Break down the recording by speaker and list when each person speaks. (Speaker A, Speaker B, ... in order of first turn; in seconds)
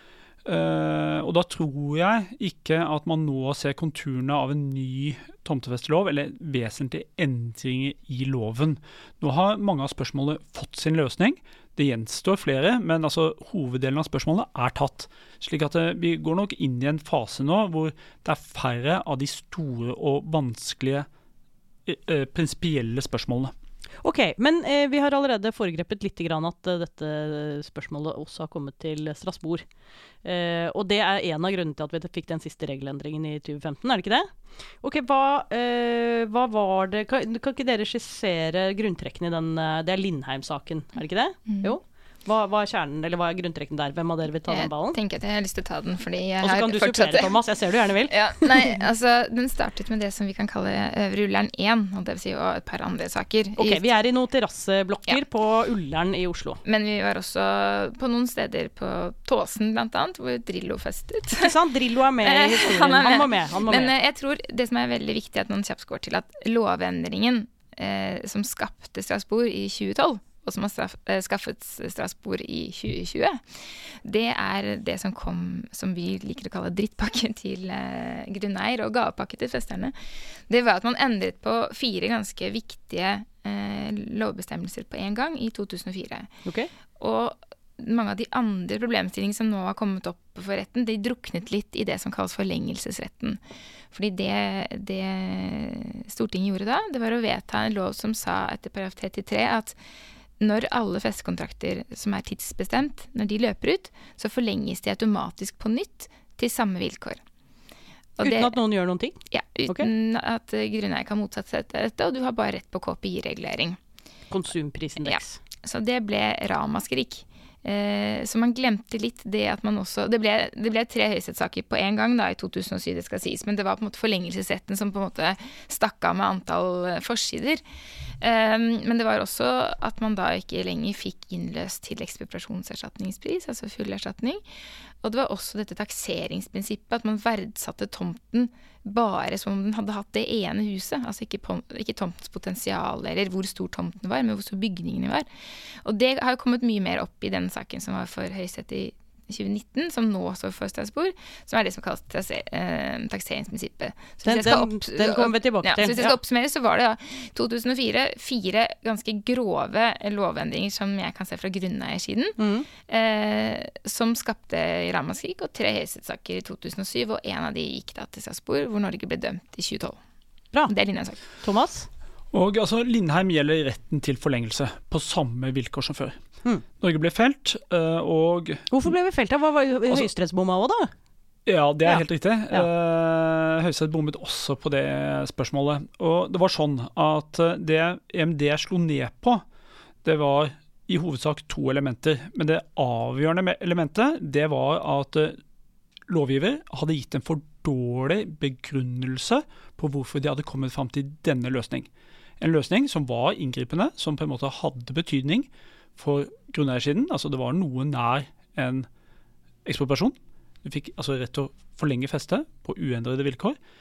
Speaker A: 0.5-21.1, 21.9-23.5, 172.3-176.2, 176.8-178.7, 181.5-189.4, 190.0-195.4, 196.1-201.9, 202.4-208.9, 209.7-213.6
Speaker B: 24.0-29.6, 30.2-45.0, 46.4-48.7, 53.6-56.6, 61.4-63.9, 86.5-86.7, 108.2-109.9, 114.3-115.4, 154.2-156.2, 162.4-162.7, 171.4-171.9, 178.7-180.9, 181.8-182.7
Speaker C: 41.5-41.7, 44.5-47.4, 48.1-53.8, 56.6-61.5, 62.2-80.0, 80.5-86.3, 87.0-93.4, 93.9-99.8, 100.4-107.2, 108.2-108.5, 109.3-113.8, 115.0-127.6, 128.2-134.4, 135.0-145.3, 145.8-170.0, 170.7-171.2